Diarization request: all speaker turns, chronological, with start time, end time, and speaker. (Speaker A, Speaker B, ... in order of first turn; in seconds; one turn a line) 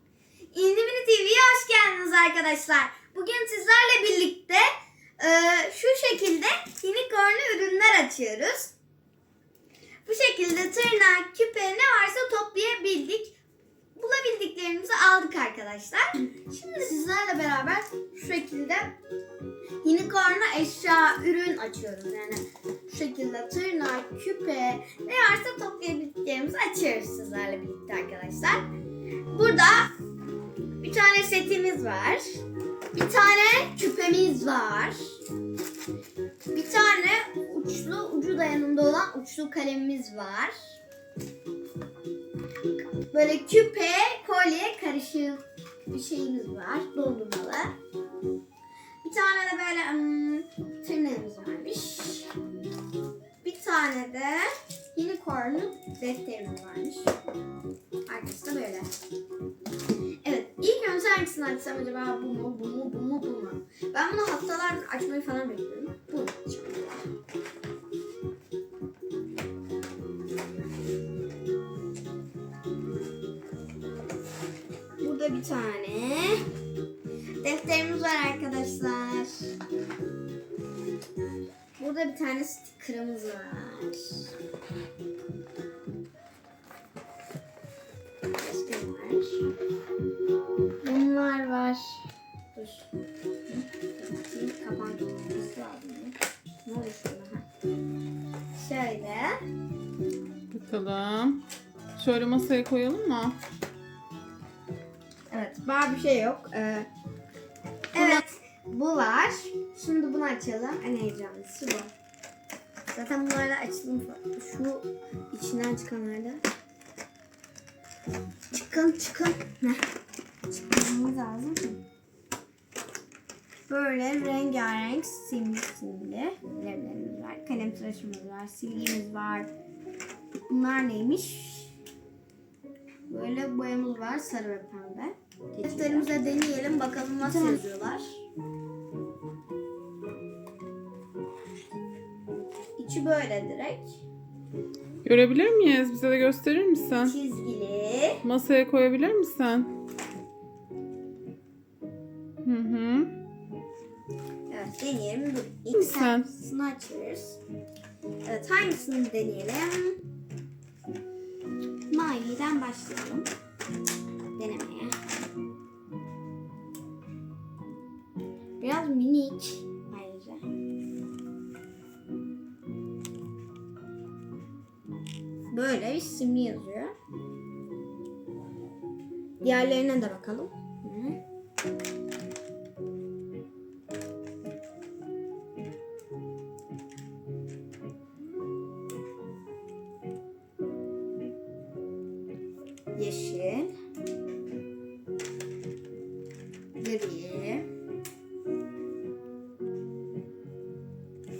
Speaker A: 0.5-8.7
Speaker A: 10.1-13.4
Speaker A: 14.0-19.0
Speaker A: 19.8-28.7
Speaker A: 29.3-29.9
Speaker A: 30.8-35.2
Speaker A: 36.5-40.8
Speaker A: 43.1-47.8
Speaker A: 49.0-52.4
Speaker A: 53.4-57.1
Speaker A: 58.1-58.9
Speaker A: 60.2-67.1
Speaker A: 75.0-76.5
Speaker A: 77.4-79.6
Speaker A: 81.8-84.3
Speaker A: 88.4-89.5
Speaker A: 90.8-92.9
Speaker A: 93.5-97.5
Speaker A: 98.5-99.4
Speaker B: 100.5-101.4
Speaker B: 102.0-103.4
Speaker A: 105.3-106.9
Speaker A: 107.9-111.9
Speaker A: 112.9-116.4
Speaker A: 118.5-119.8
Speaker A: 120.5-121.8
Speaker A: 123.7-129.5
Speaker A: 130.5-131.8
Speaker A: 133.1-138.2
Speaker A: 142.8-144.0
Speaker B: 145.0-147.1
Speaker A: 147.0-148.2
Speaker B: 148.2-149.7
Speaker B: 152.4-153.2
Speaker A: 154.5-157.4
Speaker B: 155.8-156.3
Speaker A: 158.2-160.0
Speaker A: 161.9-163.3
Speaker A: 164.4-165.0
Speaker A: 168.6-170.5
Speaker A: 175.5-176.9
Speaker A: 179.4-181.2
Speaker A: 192.9-193.7
Speaker A: 196.8-197.7